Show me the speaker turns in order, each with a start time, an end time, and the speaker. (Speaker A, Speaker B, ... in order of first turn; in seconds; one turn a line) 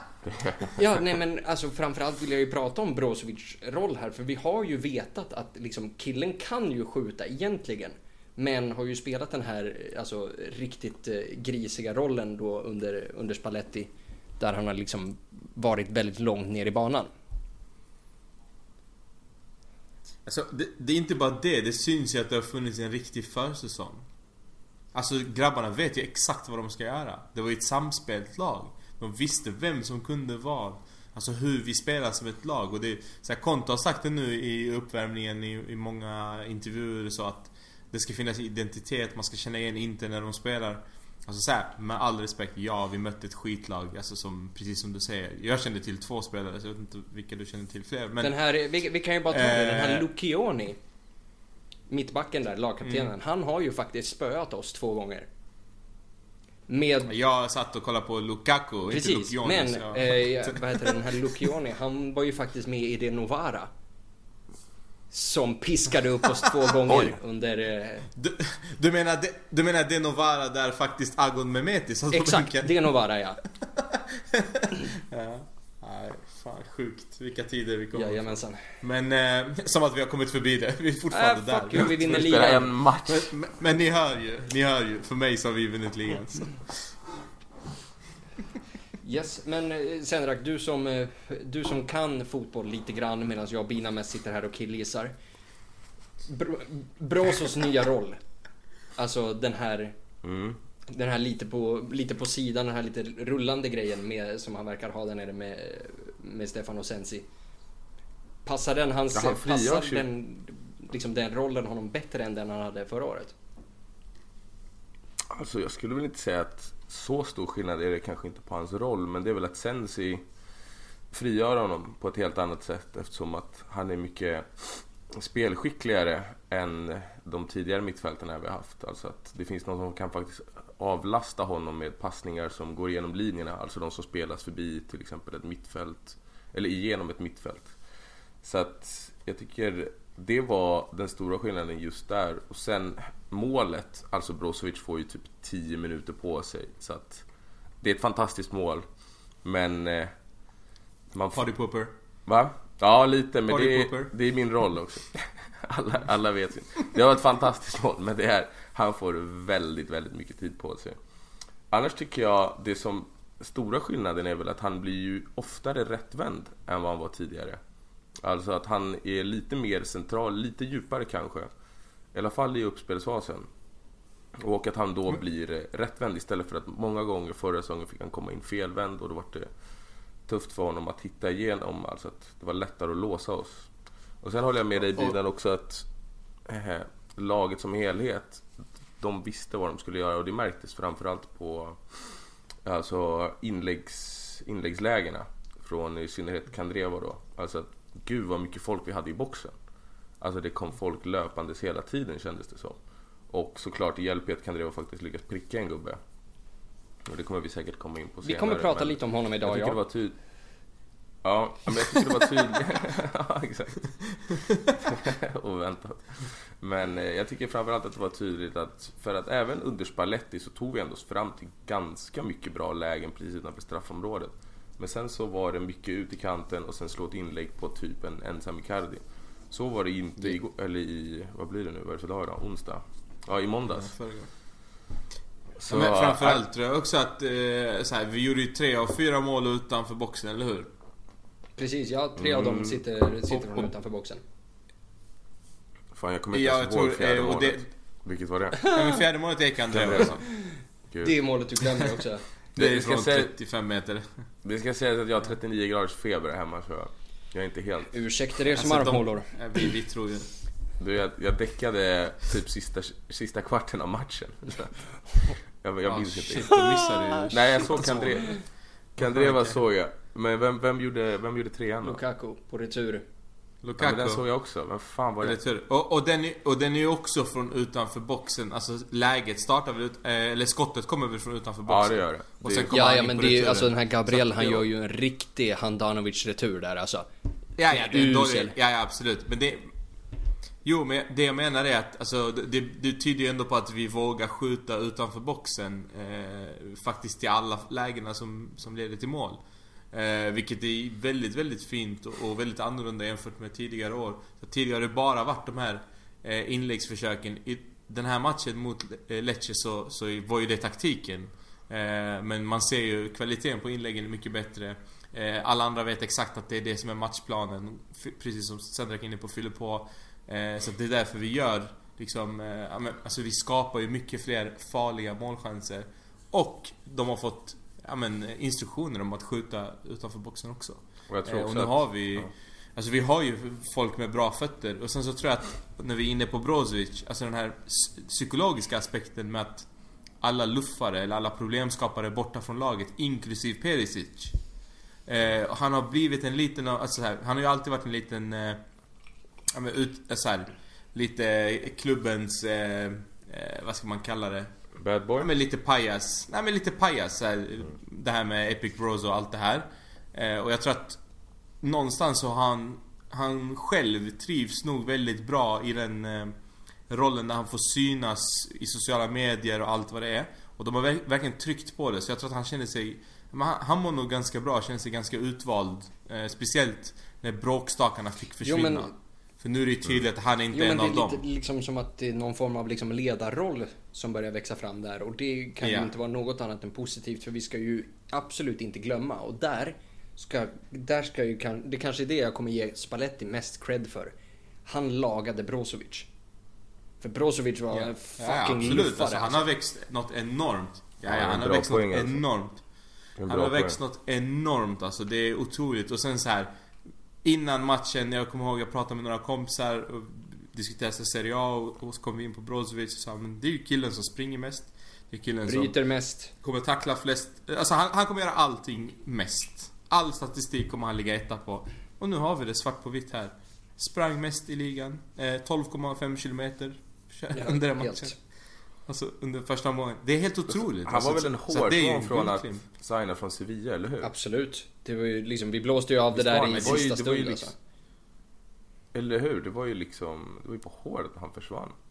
Speaker A: 0.2-0.8
Speaker B: 0.8-17.1
Speaker C: 20.2-24.1
Speaker C: 24.9-48.4
Speaker B: 48.2-50.8
Speaker C: 49.3-50.1
Speaker B: 51.9-55.3
Speaker C: 52.8-53.1
Speaker B: 56.7-57.1
Speaker C: 57.1-61.2
Speaker B: 58.9-63.7
Speaker B: 65.1-68.1
Speaker A: 66.9-67.2
Speaker C: 68.2-72.8
Speaker B: 72.1-73.4
Speaker C: 73.6-82.3
Speaker B: 77.9-78.6
Speaker B: 81.1-82.7
Speaker A: 81.8-83.3
Speaker C: 83.1-87.0
Speaker B: 89.0-95.1
Speaker B: 96.2-98.2
Speaker B: 99.0-100.0
Speaker A: 100.2-100.6
Speaker B: 100.9-107.3
Speaker B: 108.5-113.3
Speaker A: 109.1-110.1
Speaker A: 115.3-120.2
Speaker A: 121.1-137.7
Speaker A: 138.4-147.2
Speaker A: 147.8-148.8
Speaker A: 149.4-150.1
Speaker A: 151.1-151.5
Speaker C: 151.3-151.9
Speaker A: 152.3-161.0
Speaker C: 153.5-154.1
Speaker A: 161.7-167.6
Speaker A: 168.2-171.5
Speaker A: 172.1-173.5
Speaker A: 174.4-179.5
Speaker A: 180.3-183.7
Speaker A: 184.2-185.8
Speaker A: 186.5-188.5
Speaker A: 189.0-199.5
Speaker A: 200.2-202.8
Speaker A: 203.3-206.0
Speaker A: 207.1-210.1
Speaker B: 208.2-209.8
Speaker A: 211.2-213.9
Speaker A: 214.8-233.9
Speaker C: 233.7-234.3
Speaker A: 235.6-236.4
Speaker C: 235.7-240.7
Speaker B: 241.6-244.2
Speaker A: 242.2-242.8
Speaker C: 243.3-243.7
Speaker A: 245.9-248.6
Speaker C: 246.3-247.7
Speaker B: 248.6-249.0
Speaker C: 248.7-250.2
Speaker A: 249.7-250.2
Speaker B: 250.3-252.2
Speaker A: 252.6-253.3
Speaker C: 252.6-254.1
Speaker A: 254.4-257.9
Speaker B: 257.9-259.3
Speaker C: 258.6-260.3
Speaker A: 260.8-266.6
Speaker C: 265.9-268.2
Speaker B: 266.5-268.4
Speaker A: 267.3-268.4
Speaker C: 269.0-269.6
Speaker A: 269.0-272.0
Speaker B: 271.8-273.0
Speaker C: 273.6-274.2
Speaker A: 273.8-275.4
Speaker C: 275.2-284.6
Speaker A: 281.7-282.9
Speaker B: 282.7-287.1
Speaker C: 287.6-289.7
Speaker B: 287.7-288.5
Speaker C: 290.6-299.4
Speaker C: 299.9-339.7
Speaker A: 331.1-332.2
Speaker C: 340.2-344.4
Speaker C: 345.1-348.6
Speaker C: 349.5-354.5
Speaker A: 354.8-355.3
Speaker C: 355.2-361.0
Speaker C: 361.6-366.4
Speaker C: 366.9-381.2
Speaker B: 378.4-378.9
Speaker B: 380.5-394.1
Speaker C: 385.6-385.9
Speaker B: 394.7-396.1
Speaker B: 397.0-399.4
Speaker C: 397.7-402.6
Speaker A: 401.0-402.2
Speaker A: 403.2-403.8
Speaker C: 403.3-406.5
Speaker C: 407.2-415.7
Speaker B: 415.5-416.3
Speaker C: 416.4-428.1
Speaker B: 427.3-428.1
Speaker C: 428.9-432.6
Speaker A: 430.9-434.1
Speaker B: 434.0-437.5
Speaker A: 436.1-437.5
Speaker A: 438.9-441.8